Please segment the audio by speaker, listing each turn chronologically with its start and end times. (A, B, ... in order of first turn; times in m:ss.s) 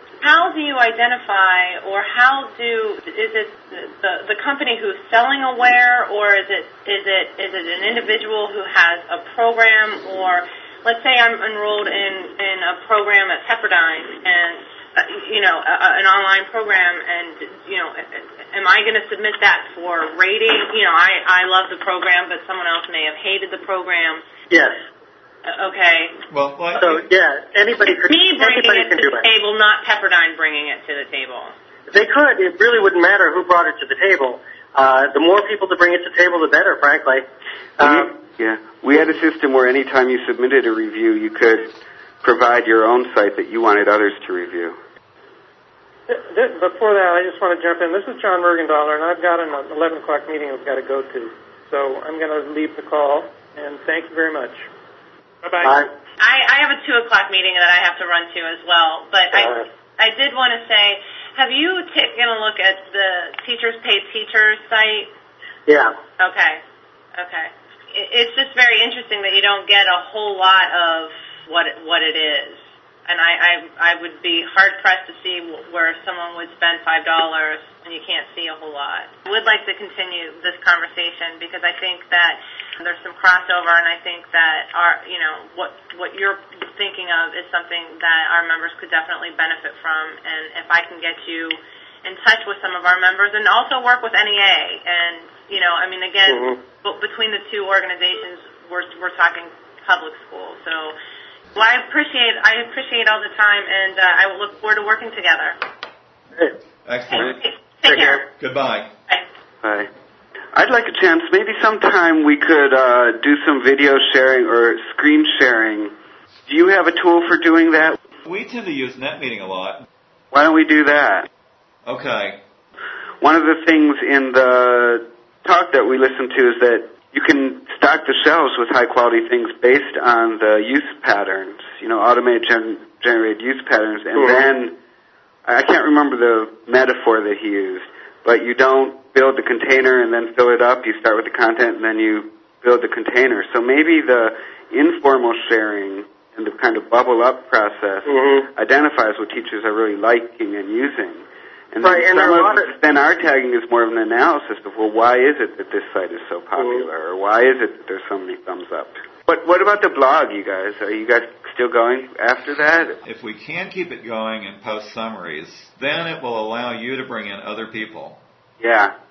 0:00.2-0:24.2 A
0:24.5-0:24.8 B
0:25.4-0:26.2 A
0:26.3-0:27.0 C
0:26.8-0:29.3 B
0:27.9-0:31.5 A
0:31.9-0:37.2 B
0:37.8-0:38.1 B
0:37.8-0:44.8 D
0:46.1-0:54.6 E
0:55.4-0:55.8 E
0:56.2-1:05.1 A
0:59.3-0:59.6 B
1:05.7-1:05.9 B
1:06.2-1:06.6 A
1:07.2-1:40.9 A
1:36.3-1:36.6 B
1:41.5-1:45.6 A
1:46.8-1:47.4 C
1:47.1-1:48.2 A
1:47.9-1:48.2 B
1:48.4-1:48.9 C
1:49.6-1:49.9 D
1:50.5-1:55.9 D
1:56.4-1:58.0 D
1:58.2-1:59.8 C
2:00.3-2:01.3 D
2:01.8-2:02.4 C
2:03.2-2:14.7 D
2:15.4-2:43.0 D
2:28.1-2:28.4 B
2:31.8-2:32.7 B
2:43.0-2:48.2 C
2:48.6-2:48.9 D